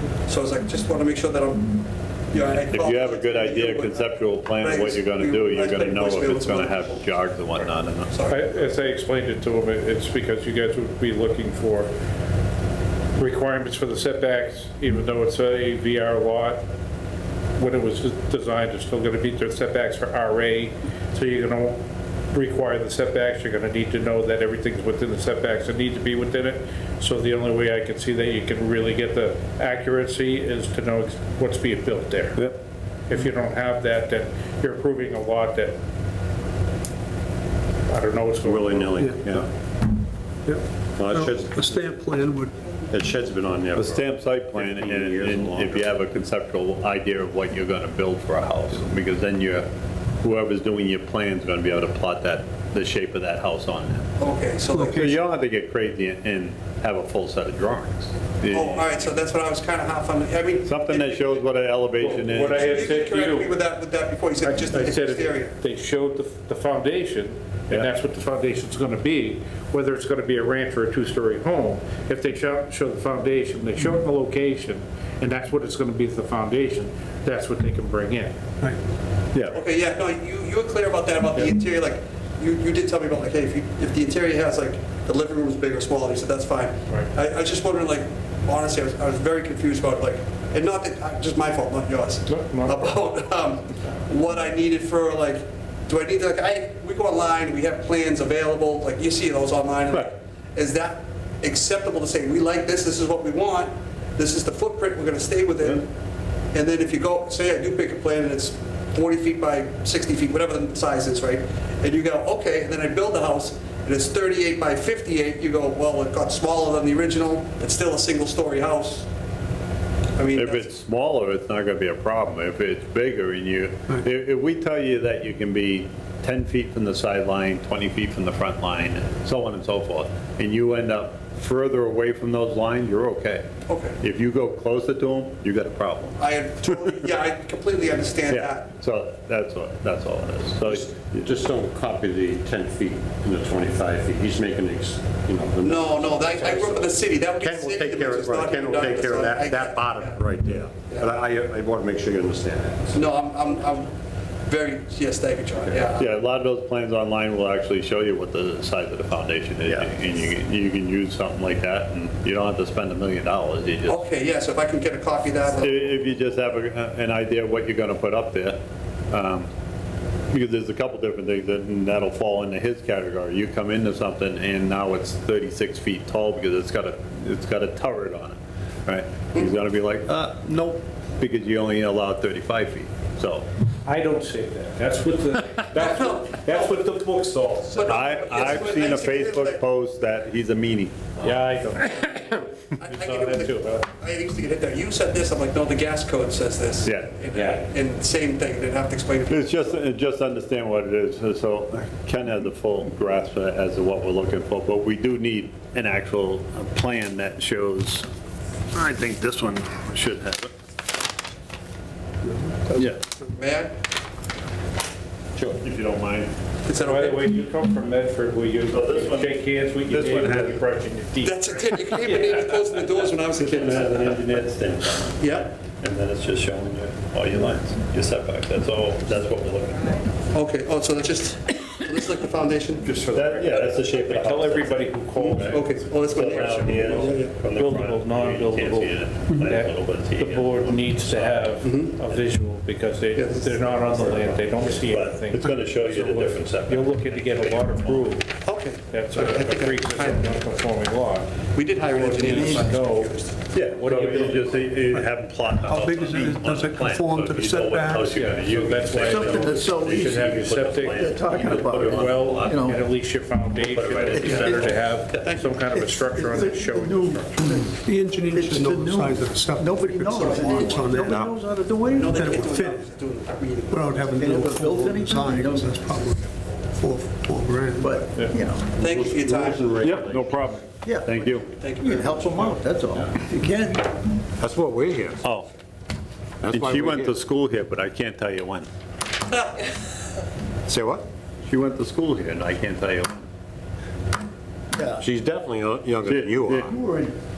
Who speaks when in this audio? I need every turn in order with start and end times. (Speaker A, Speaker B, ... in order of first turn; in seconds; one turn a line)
Speaker A: 0.3-1.8
Speaker A: 2.3-7.0
Speaker B: 2.7-8.1
Speaker A: 8.1-8.6
Speaker C: 8.3-11.9
Speaker C: 13.2-16.6
Speaker C: 17.6-21.8
Speaker C: 22.3-32.5
Speaker C: 33.1-35.8
Speaker C: 37.9-39.1
Speaker D: 38.4-39.5
Speaker E: 39.0-39.3
Speaker E: 40.5-42.5
Speaker D: 41.0-42.0
Speaker D: 42.9-46.0
Speaker B: 43.7-49.7
Speaker B: 50.2-54.1
Speaker A: 54.2-55.2
Speaker B: 54.7-59.1
Speaker A: 58.5-61.5
Speaker B: 60.6-62.7
Speaker C: 62.0-63.6
Speaker A: 62.5-65.5
Speaker C: 64.4-78.3
Speaker B: 79.3-79.6
Speaker A: 79.5-105.9
Speaker C: 92.3-92.9
Speaker A: 106.5-119.1
Speaker A: 120.2-120.7
Speaker B: 120.3-133.4
Speaker A: 133.7-134.0
Speaker B: 134.0-136.2
Speaker A: 136.2-138.7
Speaker B: 138.3-141.3
Speaker D: 140.7-153.1
Speaker A: 145.6-150.2
Speaker A: 150.8-151.2
Speaker A: 152.9-153.9
Speaker A: 154.4-156.1
Speaker B: 155.9-164.0
Speaker A: 163.9-166.1
Speaker B: 165.6-169.5
Speaker B: 170.3-183.4
Speaker C: 183.8-188.0
Speaker A: 185.7-186.9
Speaker A: 187.7-189.6
Speaker B: 187.8-191.0
Speaker C: 191.2-193.9
Speaker A: 192.8-199.8
Speaker B: 196.8-197.6
Speaker B: 199.3-208.1
Speaker B: 208.7-210.5
Speaker B: 212.7-213.0
Speaker A: 213.3-213.7
Speaker B: 215.3-216.3
Speaker A: 216.6-217.3
Speaker C: 216.8-222.5
Speaker B: 218.7-220.6
Speaker A: 221.2-224.2
Speaker B: 223.4-230.1
Speaker A: 225.2-225.5
Speaker A: 230.3-233.6
Speaker B: 232.8-242.2
Speaker C: 233.9-248.3
Speaker A: 235.2-237.3
Speaker A: 241.6-241.9
Speaker A: 243.1-244.7
Speaker B: 244.8-248.2
Speaker A: 248.4-250.6
Speaker C: 248.9-251.3
Speaker A: 251.5-253.4
Speaker C: 251.9-253.1
Speaker F: 252.3-252.7
Speaker B: 253.5-262.8
Speaker C: 253.7-254.6
Speaker E: 255.6-258.3
Speaker C: 258.1-267.4
Speaker F: 259.0-260.3
Speaker F: 260.9-262.8
Speaker B: 263.5-265.2
Speaker F: 264.2-264.8
Speaker A: 265.2-265.6
Speaker E: 265.9-271.4
Speaker F: 266.9-267.7
Speaker F: 268.2-272.4
Speaker A: 270.2-270.8
Speaker A: 271.9-274.1
Speaker E: 272.1-272.9
Speaker E: 273.7-278.2
Speaker F: 274.1-275.7
Speaker F: 277.8-278.7
Speaker A: 278.8-279.7
Speaker D: 278.8-280.4
Speaker B: 279.8-281.4
Speaker F: 280.8-281.1
Speaker A: 281.1-282.5
Speaker F: 281.8-283.8
Speaker D: 284.4-285.2
Speaker B: 285.2-285.5
Speaker D: 286.4-287.1
Speaker B: 286.4-288.7
Speaker A: 289.3-289.6
Speaker D: 290.7-291.0
Speaker B: 291.5-293.3
Speaker F: 294.7-295.1
Speaker D: 295.0-296.7
Speaker B: 296.0-296.8
Speaker F: 296.6-297.1